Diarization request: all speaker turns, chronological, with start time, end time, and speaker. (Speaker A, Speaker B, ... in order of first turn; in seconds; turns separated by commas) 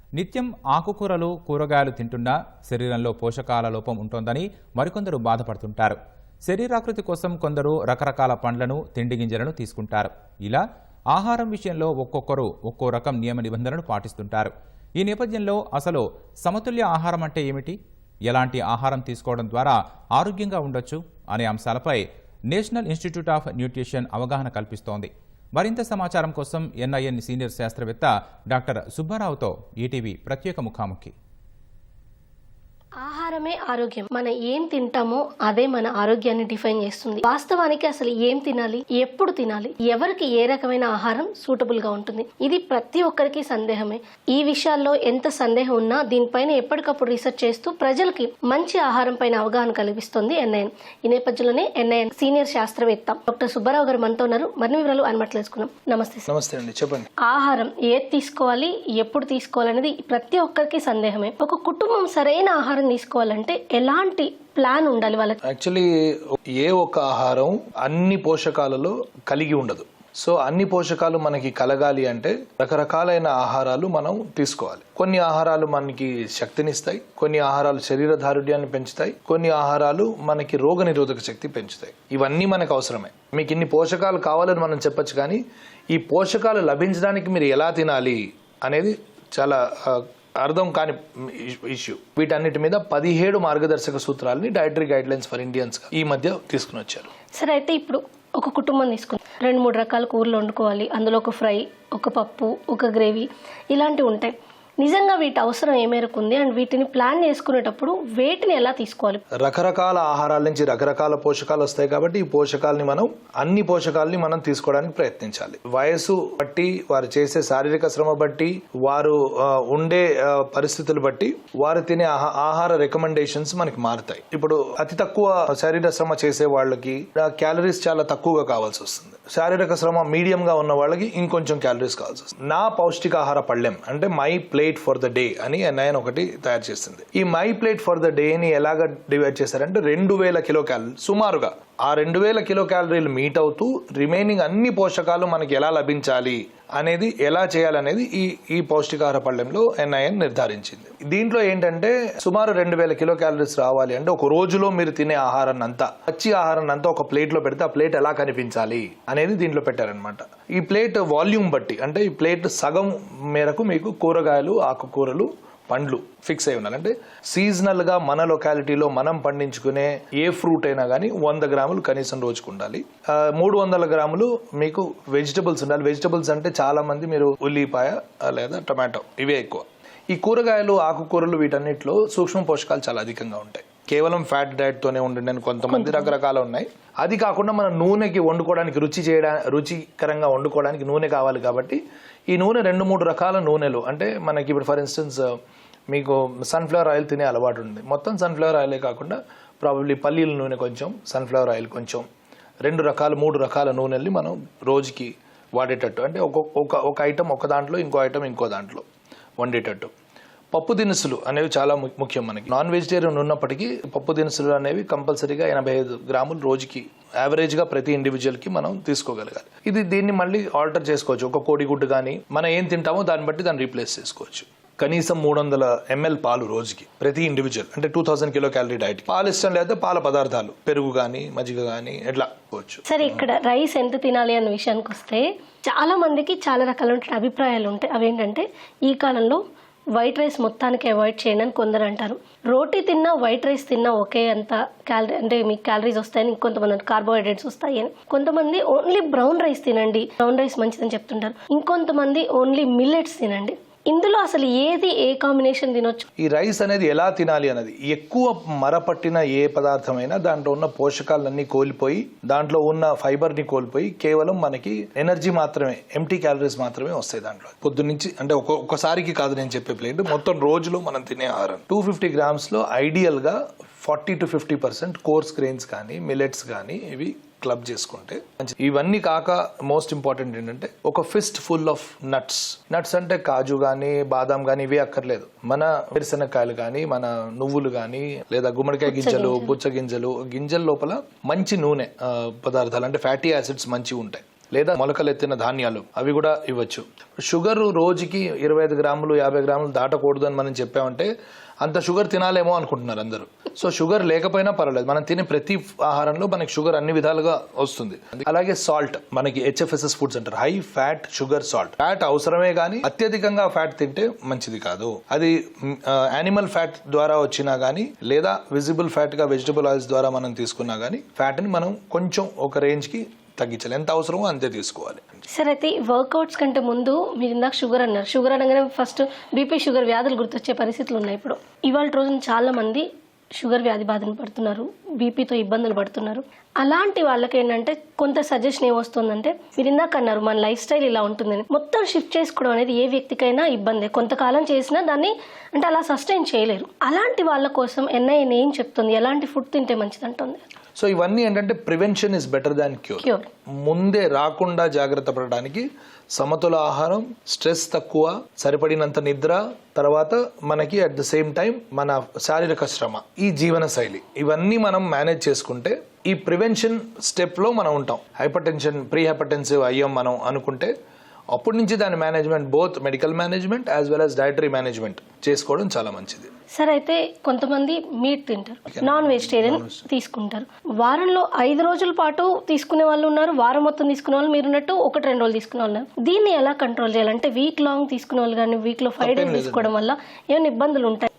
Speaker A: 0.2-10.6, Speaker A: 11.1-17.8, Speaker A: 18.3-31.1, Speaker B: 33.0-56.3, Speaker C: 56.3-57.1, Speaker B: 57.2-65.4, Speaker C: 65.5-85.4, Speaker C: 85.9-97.1, Speaker B: 97.3-109.2, Speaker C: 109.4-195.3, Speaker B: 185.8-186.1, Speaker C: 195.9-202.1, Speaker C: 202.7-208.8, Speaker C: 209.4-209.9, Speaker C: 210.5-233.1, Speaker B: 232.9-239.4, Speaker B: 239.9-256.0, Speaker C: 256.2-301.1, Speaker B: 288.9-289.6, Speaker C: 301.6-325.0, Speaker B: 325.3-350.4, Speaker C: 350.8-353.1, Speaker B: 353.0-353.3, Speaker C: 353.6-370.7, Speaker C: 371.3-376.3, Speaker B: 376.6-391.1, Speaker C: 378.7-379.8, Speaker C: 389.0-389.7